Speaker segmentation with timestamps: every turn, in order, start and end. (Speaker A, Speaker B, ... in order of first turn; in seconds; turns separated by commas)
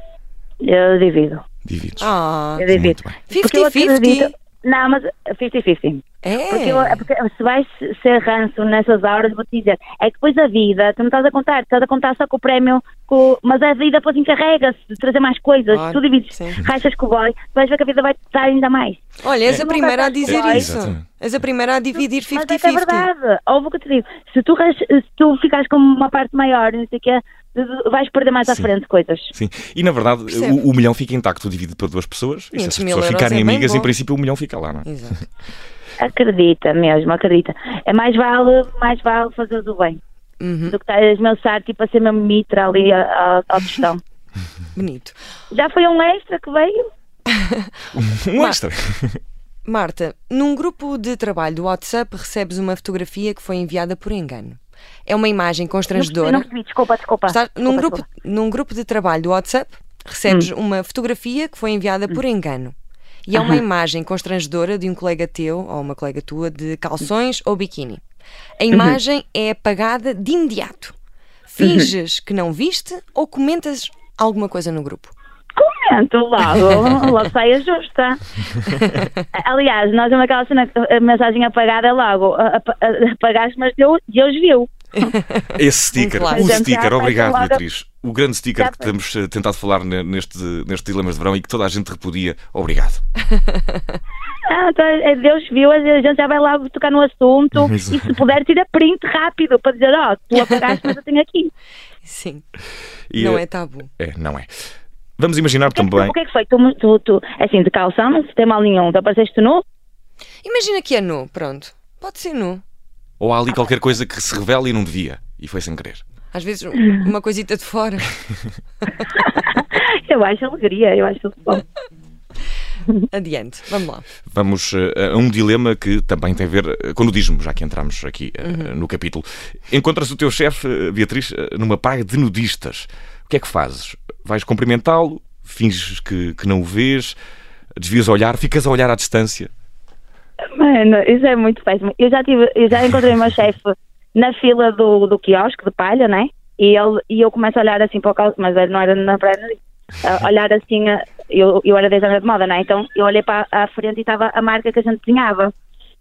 Speaker A: 0.6-1.4, Speaker B: 1.7-2.1, Speaker C: 2.0-2.7, Speaker A: 2.6-20.7, Speaker B: 2.7-3.2, Speaker C: 3.3-4.3, Speaker C: 6.2-7.0, Speaker C: 15.7-16.6, Speaker C: 19.2-23.1, Speaker B: 20.3-21.0, Speaker A: 22.3-29.3, Speaker B: 29.3-34.9, Speaker C: 30.3-30.6, Speaker C: 32.5-33.9, Speaker C: 34.9-35.2, Speaker A: 36.0-40.0, Speaker C: 40.4-40.8, Speaker A: 40.7-44.0, Speaker C: 44.8-45.2, Speaker A: 45.5-46.8, Speaker C: 47.4-47.7, Speaker B: 47.9-49.2, Speaker C: 49.6-56.5, Speaker A: 55.9-58.0, Speaker C: 57.3-62.7, Speaker C: 63.3-68.0, Speaker A: 63.4-63.6, Speaker C: 68.6-70.9, Speaker C: 71.5-75.1, Speaker A: 71.6-71.9, Speaker A: 75.6-78.2, Speaker A: 79.3-85.1, Speaker C: 85.0-86.6, Speaker B: 85.5-93.0, Speaker A: 86.3-87.6, Speaker A: 88.6-88.9, Speaker A: 94.5-101.5, Speaker B: 97.5-98.2, Speaker C: 100.3-100.8, Speaker C: 102.0-102.4, Speaker B: 103.1-103.4, Speaker C: 103.2-103.9, Speaker B: 104.0-104.5, Speaker B: 105.2-106.2, Speaker A: 105.7-109.6, Speaker C: 110.4-112.6, Speaker B: 113.2-116.0, Speaker C: 116.3-118.2, Speaker A: 119.2-121.6, Speaker C: 123.1-124.1, Speaker B: 124.3-137.2, Speaker C: 128.4-128.7, Speaker B: 137.8-139.5, Speaker A: 140.6-155.5